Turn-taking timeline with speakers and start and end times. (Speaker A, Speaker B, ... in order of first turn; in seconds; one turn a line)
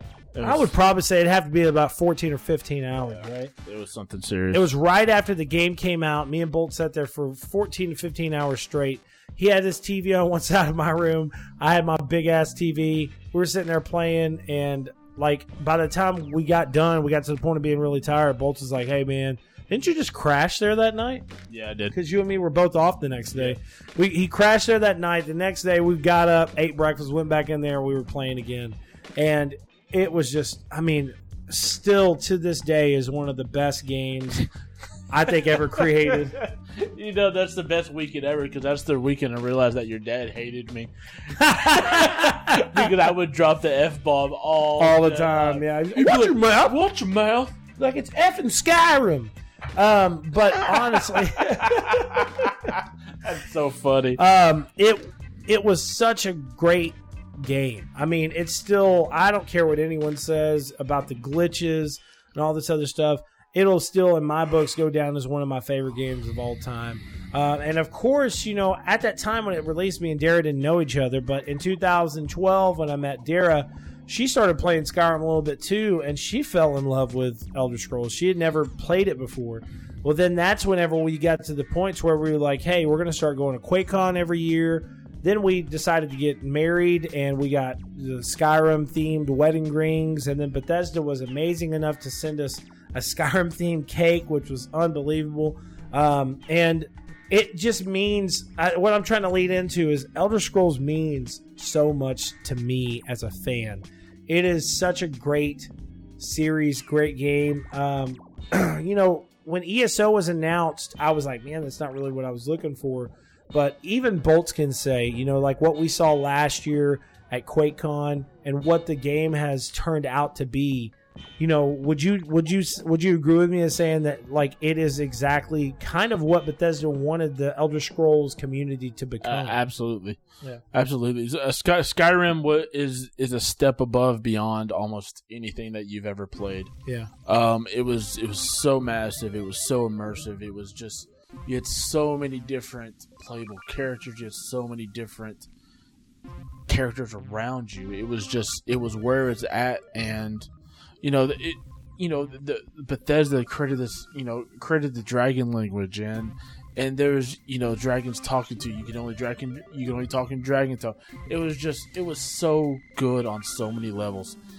Speaker A: 0.3-0.8
Speaker B: 0.4-3.5
Speaker A: 3.0-4.7
Speaker B: 4.5-21.3
Speaker A: 21.5-22.0
Speaker B: 21.9-34.5
Speaker B: 35.1-36.4
Speaker A: 36.4-47.6
Speaker B: 41.3-42.9
Speaker B: 44.8-46.8
Speaker B: 47.8-52.7
Speaker A: 50.7-54.2
Speaker B: 54.2-129.6
Speaker A: 129.2-130.2
Speaker A: 130.7-136.7
Speaker B: 136.9-137.1
Speaker A: 137.3-145.5
Speaker A: 146.7-150.5
Speaker A: 151.0-164.4